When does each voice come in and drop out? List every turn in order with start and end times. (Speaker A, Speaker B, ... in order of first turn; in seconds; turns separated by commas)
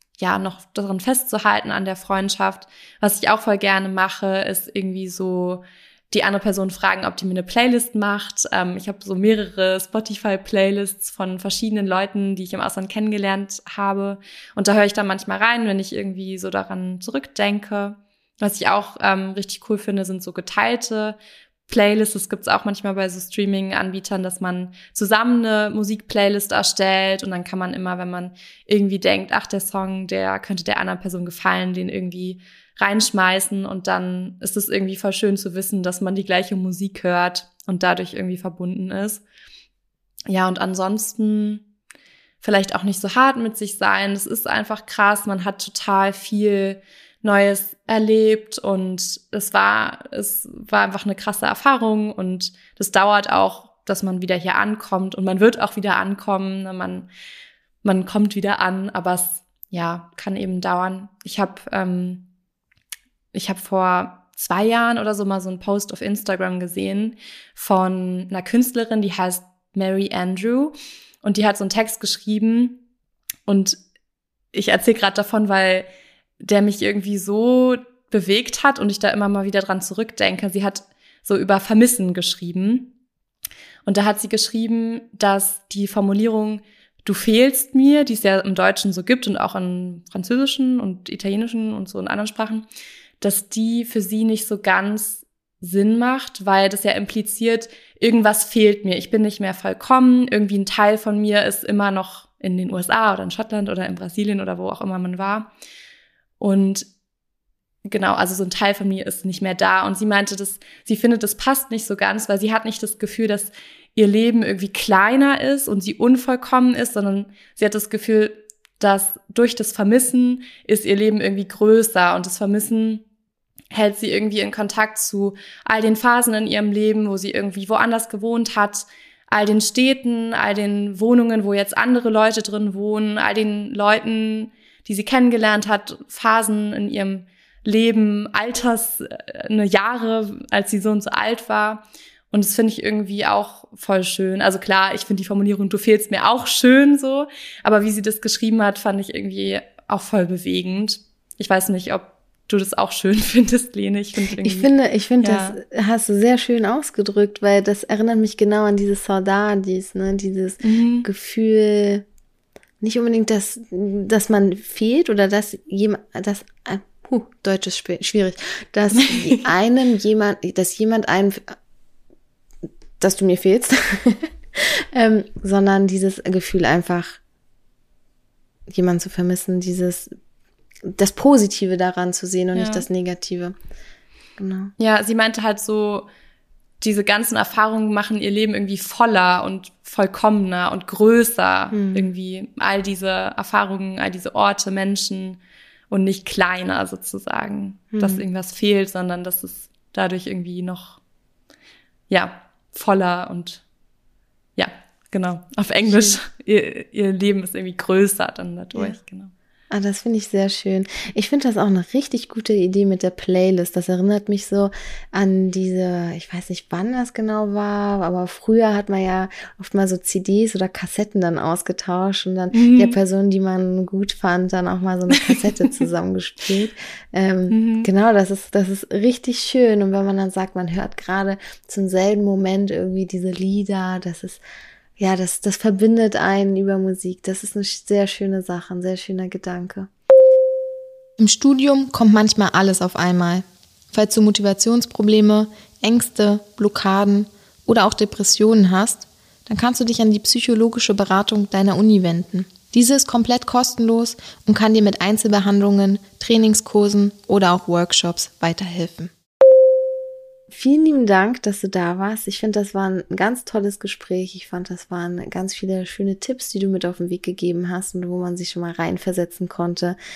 Speaker A: 0.2-21.1, Speaker A: 21.7-39.2, Speaker A: 40.3-41.6, Speaker A: 42.4-57.1, Speaker A: 57.8-62.2, Speaker A: 63.3-72.8, Speaker A: 73.5-73.8, Speaker A: 74.5-75.9, Speaker A: 76.4-82.9, Speaker A: 83.8-92.7, Speaker A: 93.2-105.5, Speaker A: 106.4-106.9, Speaker A: 107.9-123.0, Speaker A: 123.7-154.7, Speaker B: 154.4-162.0, Speaker A: 155.2-155.6, Speaker A: 160.6-161.1, Speaker B: 162.8-171.6, Speaker A: 168.9-169.4, Speaker B: 173.0-177.2, Speaker B: 178.7-180.1, Speaker B: 180.9-183.5, Speaker A: 182.5-182.8, Speaker B: 184.4-184.7, Speaker A: 184.8-186.1, Speaker A: 186.8-195.4, Speaker B: 191.7-192.1, Speaker A: 195.9-201.0, Speaker B: 197.9-198.2, Speaker A: 202.1-203.6, Speaker A: 204.6-209.3, Speaker B: 205.8-206.2, Speaker B: 209.7-234.4, Speaker A: 222.5-223.0, Speaker A: 225.1-225.8, Speaker A: 227.5-227.9, Speaker B: 235.0-239.9, Speaker B: 241.2-259.1, Speaker B: 260.5-269.9